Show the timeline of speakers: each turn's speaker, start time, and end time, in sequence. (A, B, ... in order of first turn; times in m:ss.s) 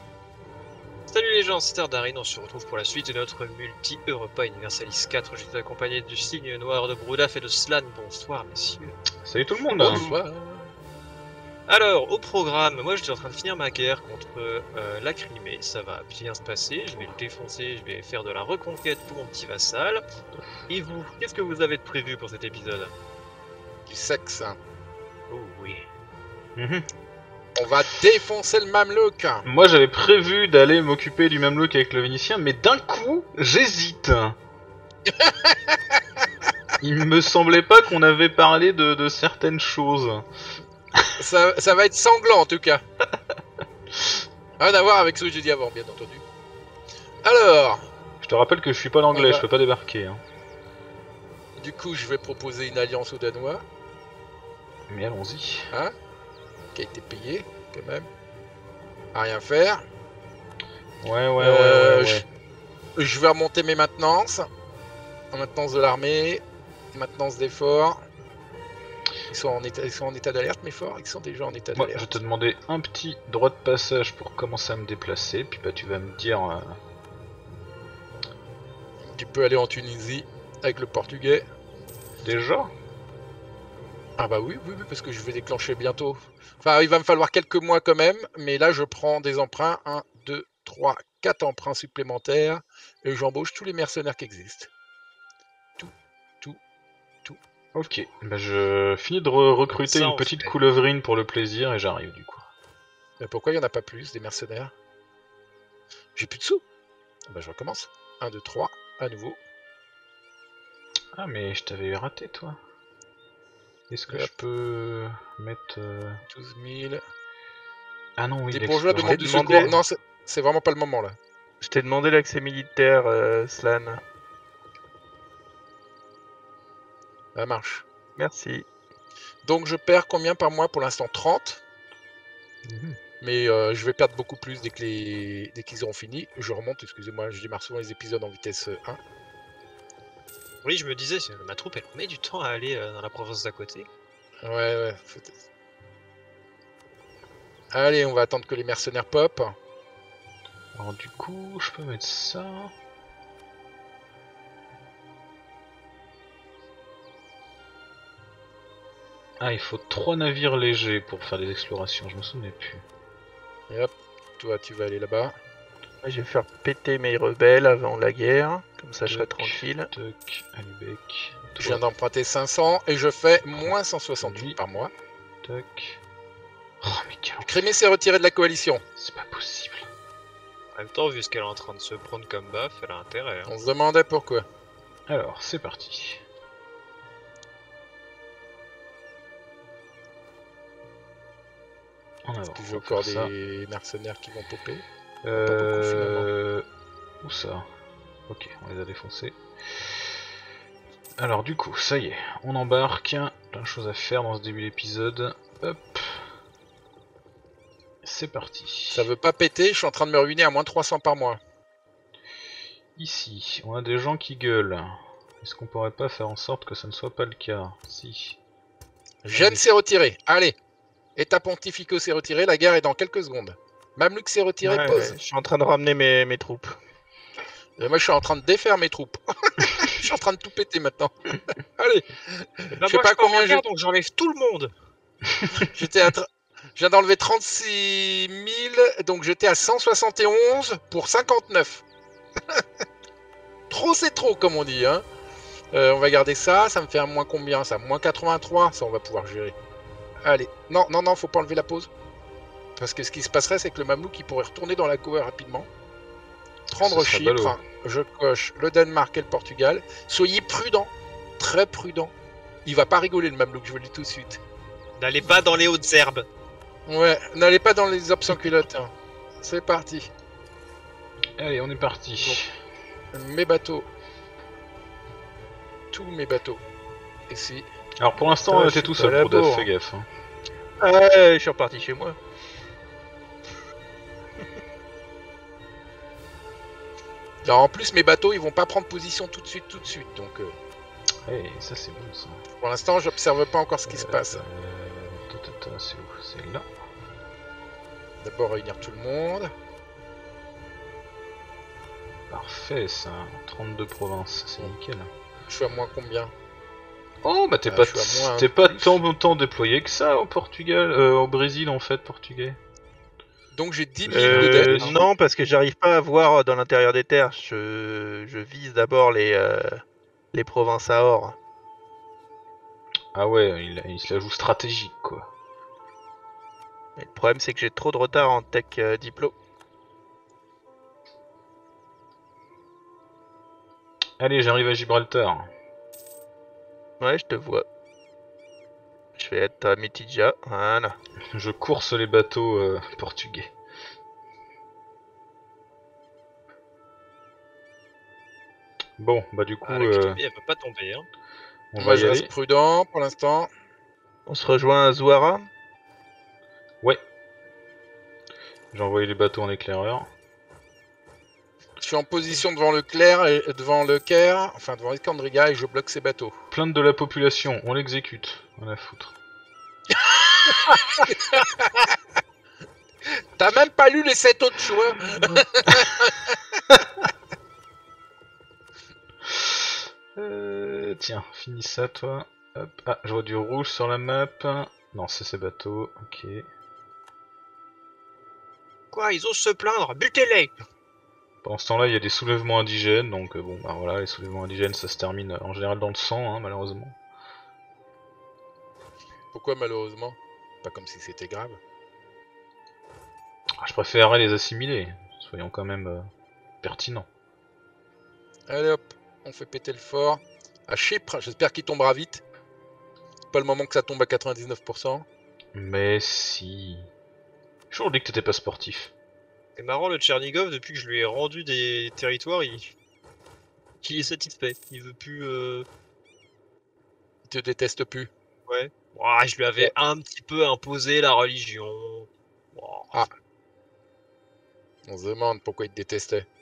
0:01.1-0:08.9 A
0:09.2-0:10.0 B
0:09.7-0:10.7 C
0:11.7-0:20.0 A
0:20.7-0:22.9 A
0:23.9-0:24.6 C
0:25.3-0:25.8 A
0:26.6-0:26.9 B
0:27.6-0:29.4 C
0:29.4-0:34.4 B
0:35.1-0:36.0 C
0:36.8-0:40.3 B
0:41.2-0:42.8 C
0:44.6-0:46.2 C
0:47.2-0:47.9 C
0:48.2-0:50.2 B
0:49.1-0:49.5 C
0:51.6-0:53.6 C
0:54.9-0:55.7 B
0:56.7-0:58.1 C
0:59.1-0:59.8 C
1:01.0-1:02.3 B
1:01.4-1:02.2 C
1:03.0-1:04.5 C
1:05.3-1:08.0 C
1:09.3-1:12.2 C
1:11.8-1:16.8 B
1:19.0-1:21.4 C
1:22.2-1:22.7 B
1:24.2-1:34.7 C
1:35.8-1:36.6 C
1:37.8-1:42.5 B
1:39.8-1:40.5 A
1:43.2-1:44.7 C
1:46.2-1:46.6 C
1:47.3-1:49.4 C
1:51.1-1:52.6 B
1:53.9-1:56.2 B
1:56.3-1:57.0 C
1:58.2-1:59.8 B
1:58.5-2:01.2 C
1:59.0-1:59.8 D
2:01.6-2:04.0 D
2:07.4-2:07.8 C
2:08.2-2:08.6 D
2:09.4-2:11.6 C
2:12.6-2:13.0 B
2:13.2-2:19.0 C
2:20.6-2:23.9 A
2:24.4-2:25.4 C
2:27.7-2:29.6 C
2:30.8-2:32.7 B
2:39.4-2:42.8 B
2:43.7-2:45.4 C
2:46.0-2:49.9 D
2:49.0-2:51.8 B
2:51.6-2:54.9 C
2:53.5-2:54.6 B
2:55.4-2:56.0 B
2:56.8-2:57.6 B
2:57.4-2:58.8 C
2:59.0-2:59.9 B
3:00.8-3:03.5 A
3:03.5-3:04.4 C
3:05.1-3:06.2 B
3:12.2-3:13.3 B
3:12.6-3:16.3 C
3:15.2-3:16.7 B
3:17.2-3:17.7 B
3:18.3-3:20.1 B
3:21.2-3:26.3 B
3:28.0-3:29.1 B
3:28.9-3:31.4 C
3:33.0-3:38.4 B
3:39.2-3:40.6 C
3:39.3-3:39.6 B
3:41.2-3:45.2 C
3:44.6-3:46.8 D
3:47.8-3:51.1 C
3:51.8-3:53.6 C
3:52.7-3:54.7 A
3:55.5-4:01.8 C
4:03.7-4:05.0 C
4:05.7-4:09.6 C
4:10.2-4:11.9 C
4:12.8-4:15.7 C
4:16.7-4:22.1 C
4:16.7-4:17.6 B
4:22.6-4:24.4 C
4:25.0-4:26.2 A
4:26.9-4:30.1 C
4:31.4-4:32.5 B
4:33.1-4:33.9 C
4:35.9-4:36.6 C
4:37.3-4:37.7 C
4:38.0-4:40.1 B
4:38.5-4:39.7 D
4:40.8-4:42.2 D
4:47.4-4:50.6 C
4:51.3-4:52.4 B
4:52.6-4:54.4 C
4:53.9-4:56.7 B
4:58.2-4:59.5 C
5:02.3-5:05.1 B
5:05.5-5:06.3 C
5:07.2-5:12.6 B
5:07.7-5:09.0 C
5:13.5-5:15.0 C
5:14.1-5:14.9 B
5:14.1-5:19.8 D
5:20.3-5:21.4 D
5:23.1-5:25.3 B
5:27.0-5:29.3 D
5:34.2-5:35.5 B
5:37.0-5:37.7 D
5:39.2-5:41.0 D
5:41.3-5:43.5 B
5:49.0-5:50.2 B
5:49.6-5:51.1 A
5:51.7-5:52.3 B
5:51.8-5:53.5 C
5:54.3-5:55.5 D
5:58.7-6:00.1 B
6:01.8-6:06.4 C
6:06.5-6:09.1 B
6:10.4-6:12.0 C
6:13.4-6:16.4 C
6:19.3-6:26.5 B
6:28.9-6:30.5 A
6:31.4-6:37.0 B
6:39.3-6:41.6 C
6:43.6-6:46.1 B
6:46.6-6:47.1 B
6:48.5-6:52.2 C
6:53.3-6:55.0 C
6:55.5-6:56.9 B
6:57.7-6:58.9 B
6:59.6-7:02.7 A
7:03.8-7:05.7 A
7:07.2-7:08.1 C
7:08.5-7:13.0 A
7:14.9-7:16.3 C